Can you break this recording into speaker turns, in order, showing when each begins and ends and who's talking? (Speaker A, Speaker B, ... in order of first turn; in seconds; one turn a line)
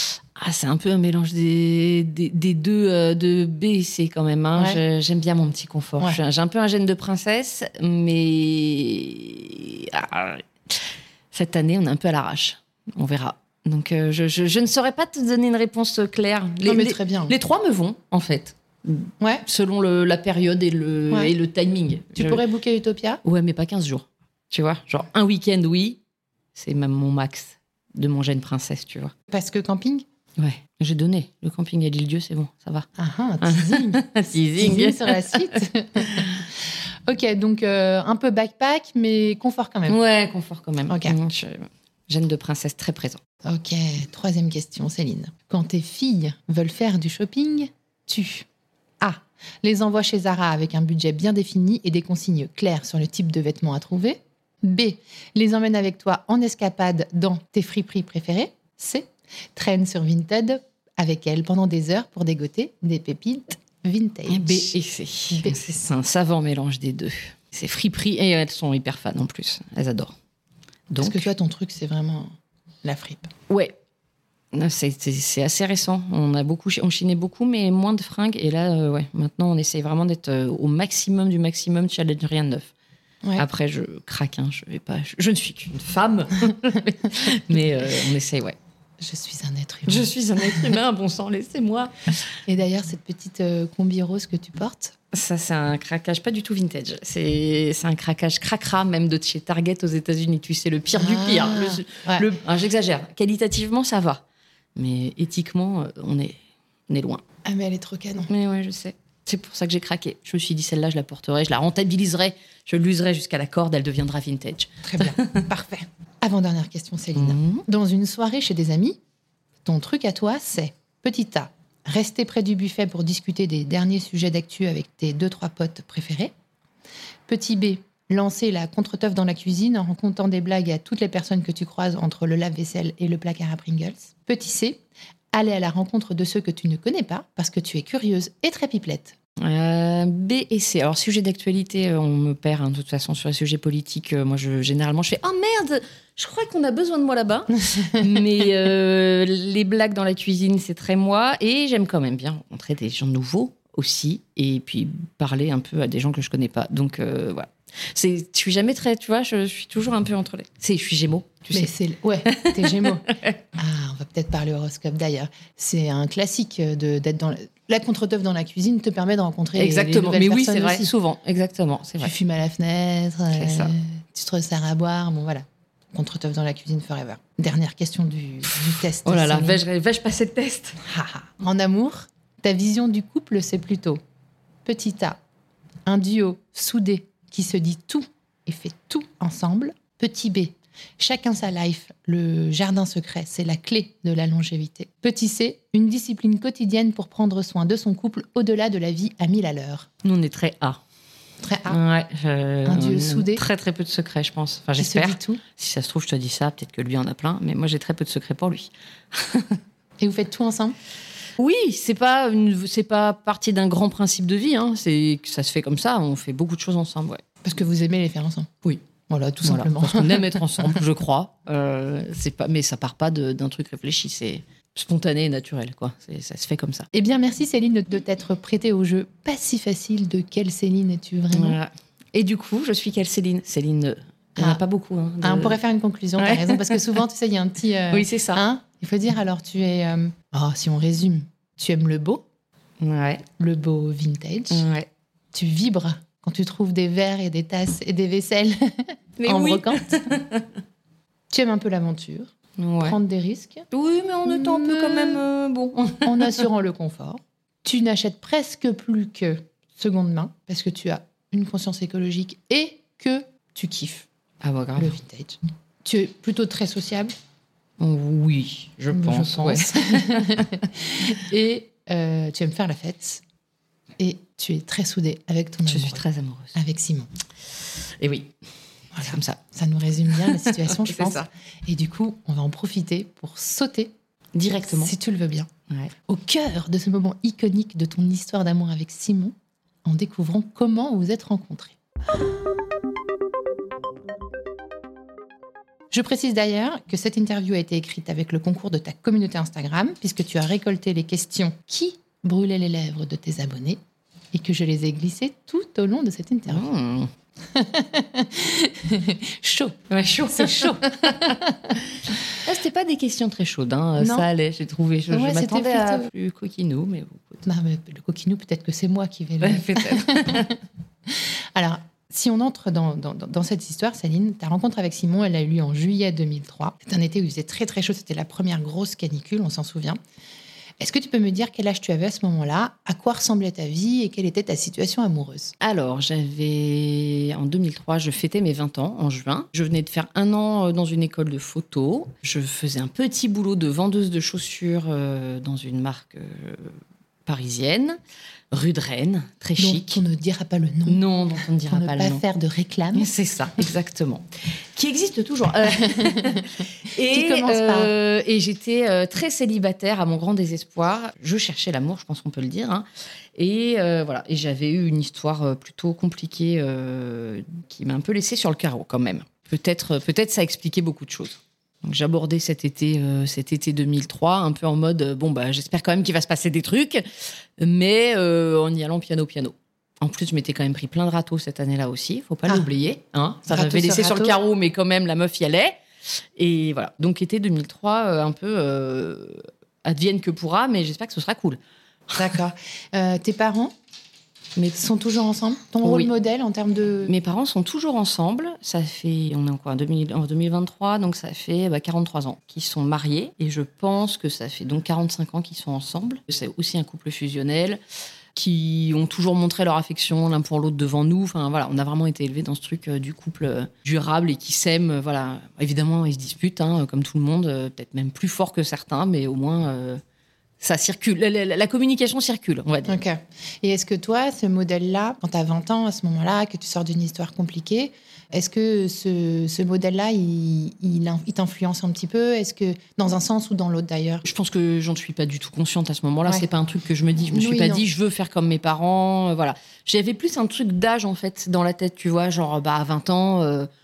Speaker A: 0.4-22.4
Speaker B: 16.6-17.3
Speaker B: 22.1-23.2
Speaker A: 23.2-26.0
Speaker A: 26.6-29.1
Speaker B: 29.3-30.0
Speaker A: 30.4-32.9
Speaker B: 33.0-34.0
Speaker A: 33.4-36.4
Speaker B: 34.5-36.5
Speaker B: 37.1-40.0
Speaker A: 39.9-43.2
Speaker B: 40.9-41.1
Speaker B: 43.4-48.5
Speaker B: 49.0-64.7
Speaker A: 64.3-70.1
Speaker B: 65.3-65.8
Speaker A: 70.9-71.3
Speaker B: 71.0-72.3
Speaker B: 72.8-73.3
Speaker A: 73.5-73.7
Speaker A: 74.5-82.7
Speaker A: 83.4-88.5
Speaker B: 89.0-90.8
Speaker A: 89.9-92.1
Speaker B: 92.5-94.9
Speaker A: 95.1-104.2
Speaker B: 100.9-102.3
Speaker A: 104.8-107.2
Speaker B: 107.4-108.3
Speaker A: 108.3-115.5
Speaker B: 114.8-119.0
Speaker A: 117.2-117.6
Speaker B: 119.6-126.3
Speaker B: 127.3-139.1
Speaker A: 139.4-161.7
Speaker B: 161.5-163.1
Speaker A: 162.2-163.4
Speaker B: 163.6-170.9
Speaker A: 169.5-172.1
Speaker B: 172.0-179.6
Speaker A: 173.3-173.7
Speaker A: 178.6-180.8
Speaker B: 180.8-184.0
Speaker B: 184.6-185.2
Speaker B: 185.8-199.9
Speaker A: 200.0-200.8
Speaker B: 201.4-201.8
Speaker A: 201.7-209.6
Speaker B: 202.6-203.4
Speaker B: 204.8-205.4
Speaker B: 210.0-210.8
Speaker A: 211.4-217.2
Speaker B: 217.4-218.5
Speaker B: 219.1-220.8
Speaker A: 219.4-226.9
Speaker B: 226.9-231.6
Speaker A: 231.3-235.6
Speaker B: 235.2-242.2
Speaker A: 236.2-237.0
Speaker A: 237.9-238.4
Speaker A: 242.8-243.2
Speaker B: 243.4-244.6
Speaker A: 244.5-244.9
Speaker B: 245.3-248.6
Speaker A: 249.2-250.5
Speaker B: 249.2-249.8
Speaker B: 251.3-253.7
Speaker A: 252.6-253.0
Speaker A: 253.7-256.4
Speaker B: 254.2-255.2
Speaker B: 256.0-264.1
Speaker A: 264.4-264.9
Speaker B: 264.8-267.1
Speaker A: 267.8-270.6
Speaker B: 268.9-273.2
Speaker B: 274.0-276.0
Speaker A: 275.7-276.5
Speaker B: 276.5-277.1
Speaker A: 278.0-278.3
Speaker B: 278.9-283.9
Speaker A: 279.0-279.4
Speaker A: 280.1-281.3
Speaker A: 284.3-284.9
Speaker B: 284.6-285.5
Speaker B: 286.1-289.3
Speaker B: 289.8-291.8
Speaker B: 295.9-303.8
Speaker B: 304.3-306.7
Speaker A: 306.5-307.1
Speaker B: 307.5-309.8
Speaker A: 309.9-317.4
Speaker B: 310.3-311.8
Speaker B: 314.0-314.3
Speaker B: 315.1-316.1
Speaker B: 317.4-320.6
Speaker A: 319.4-320.5
Speaker B: 321.1-330.0
Speaker B: 330.8-335.5
Speaker A: 335.6-348.0
Speaker A: 348.5-350.0
Speaker B: 349.6-351.0
Speaker A: 350.9-352.2
Speaker B: 351.7-353.1
Speaker A: 352.9-377.0
Speaker B: 357.1-357.9
Speaker A: 377.6-385.8
Speaker B: 383.5-384.4
Speaker A: 386.4-391.6
Speaker B: 392.1-393.7
Speaker B: 394.8-397.1
Speaker A: 395.8-396.1
Speaker A: 397.1-407.8
Speaker A: 408.3-420.0
Speaker A: 420.6-423.0
Speaker B: 422.9-434.2
Speaker A: 434.2-443.7
Speaker B: 437.3-437.9